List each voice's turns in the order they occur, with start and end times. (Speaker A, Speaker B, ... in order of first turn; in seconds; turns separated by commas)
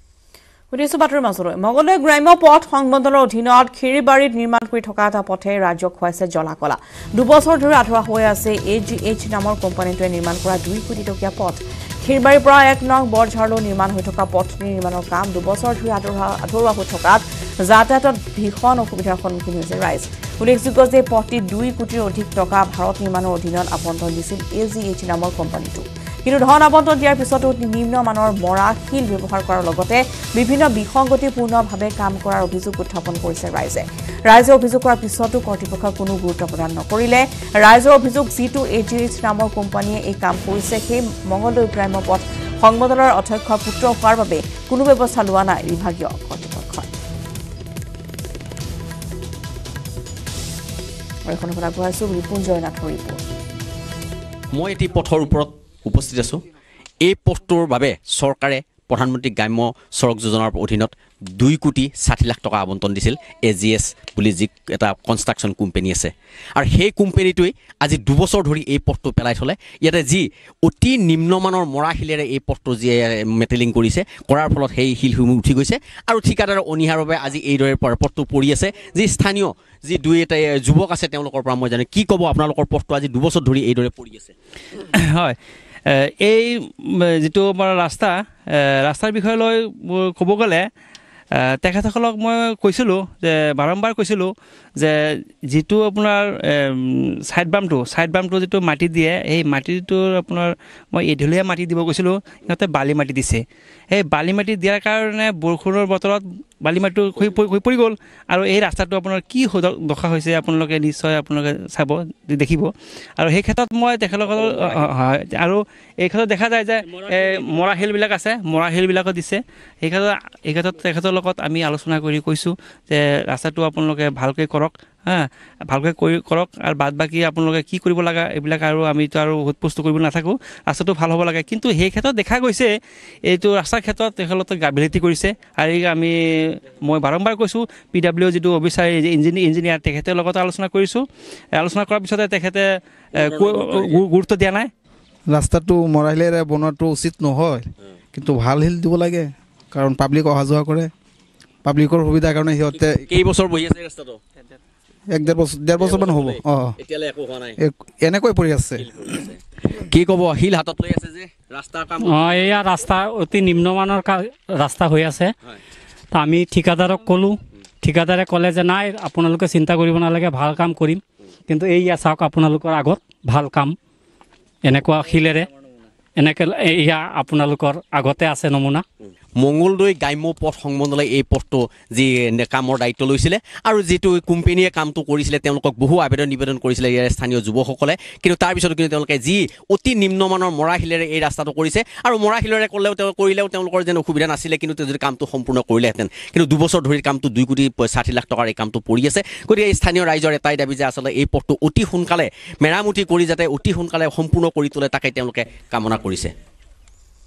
Speaker A: 0.7-46.9, Speaker A: 51.3-53.2, Speaker B: 54.5-56.4, Speaker B: 57.0-84.3, Speaker C: 84.9-85.3, Speaker C: 85.9-90.6, Speaker C: 91.6-95.0, Speaker C: 95.5-132.7, Speaker C: 133.3-136.1, Speaker C: 136.8-141.0, Speaker C: 141.6-142.6, Speaker B: 143.1-144.0, Speaker C: 143.2-144.7, Speaker D: 145.3-150.9, Speaker D: 151.6-153.1, Speaker B: 152.7-154.2, Speaker D: 155.1-156.8, Speaker B: 155.8-157.6, Speaker D: 157.6-158.8, Speaker B: 158.8-162.6, Speaker E: 162.0-165.3, Speaker E: 166.1-173.8, Speaker E: 174.6-175.5, Speaker E: 176.2-178.8, Speaker B: 179.4-206.3